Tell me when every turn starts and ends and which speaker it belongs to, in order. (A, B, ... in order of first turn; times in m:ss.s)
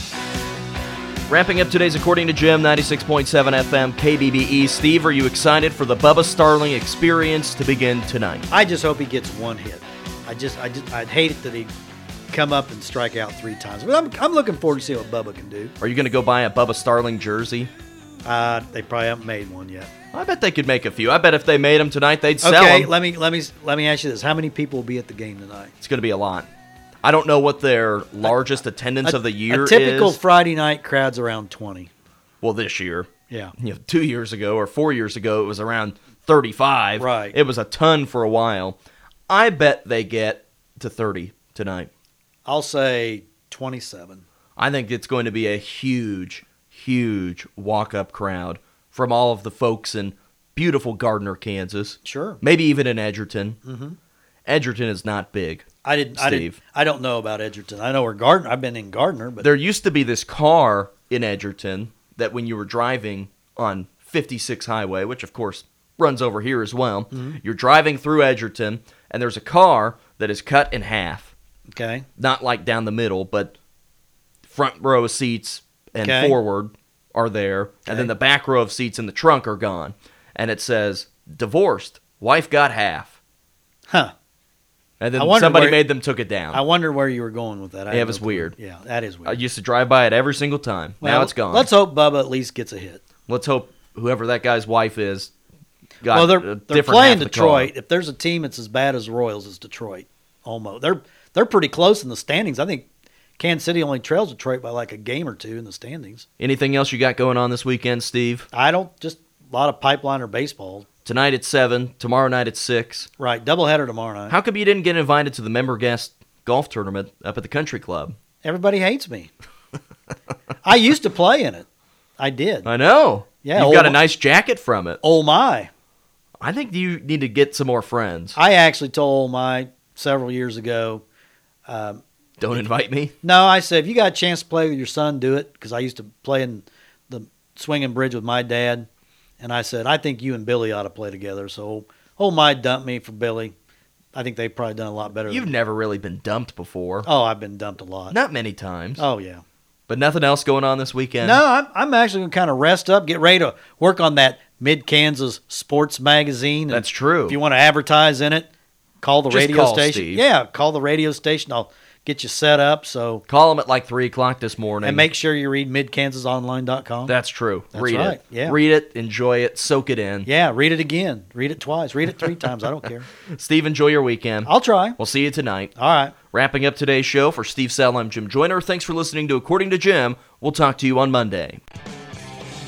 0:01.3-0:08.5 A
0:08.5-0:11.7 B
0:12.3-0:15.7 B
0:15.8-0:17.7 A
0:18.2-0:19.9 B
0:20.1-0:22.9 A
0:22.4-0:25.7 B
0:25.8-0:26.5 A
0:27.0-0:30.2 A
0:29.0-0:31.9 B
0:32.4-0:38.8 A
0:37.0-0:37.4 B
0:39.3-0:41.9 A
0:42.5-0:44.2 B
0:44.6-0:53.6 A
0:52.0-0:52.4 B
0:53.6-0:54.0 B
0:54.5-0:56.6 A
0:55.8-0:59.5 B
0:59.4-1:11.3 A
1:07.1-1:07.4 B
1:11.7-1:12.1 B
1:12.2-1:13.6 A
1:14.4-1:23.2 A
1:16.0-1:16.4 B
1:25.0-1:26.6 A
1:25.2-1:25.8 B
1:26.5-1:29.4 B
1:27.9-1:28.5 A
1:29.2-1:31.7 A
1:31.0-1:33.0 B
1:33.3-1:35.3 A
1:36.0-1:37.7 A
1:36.1-1:42.9 B
1:43.4-1:46.3 B
1:46.4-1:48.5 A
1:48.5-1:50.9 B
1:51.0-1:53.1 A
1:53.2-1:54.4 B
1:54.3-1:58.2 A
1:58.4-1:59.3 B
2:00.6-2:01.7 B
2:02.2-2:02.7 B
2:02.6-2:05.0 A
2:03.4-2:04.0 B
2:05.0-2:05.7 B
2:06.4-2:08.4 A
2:08.4-2:11.0 B
2:11.7-2:12.0 B
2:12.4-2:13.1 A
2:13.2-2:18.9 B
2:19.4-2:23.5 B
2:24.2-2:25.5 B
2:25.3-2:27.1 A
2:27.0-2:28.2 B
2:28.1-2:29.1 A
2:29.0-2:29.4 B
2:29.9-2:31.4 A
2:31.2-2:38.5 B
2:36.7-2:37.4 A
2:39.0-2:43.2 B
2:39.3-2:40.2 A
2:43.3-2:45.1 A
2:44.8-2:47.2 B
2:47.1-2:50.3 A
2:47.7-2:48.6 B
2:50.3-2:53.1 B
2:53.2-2:55.7 A
2:54.5-2:55.0 B
2:55.8-2:56.2 B
2:56.3-3:01.6 A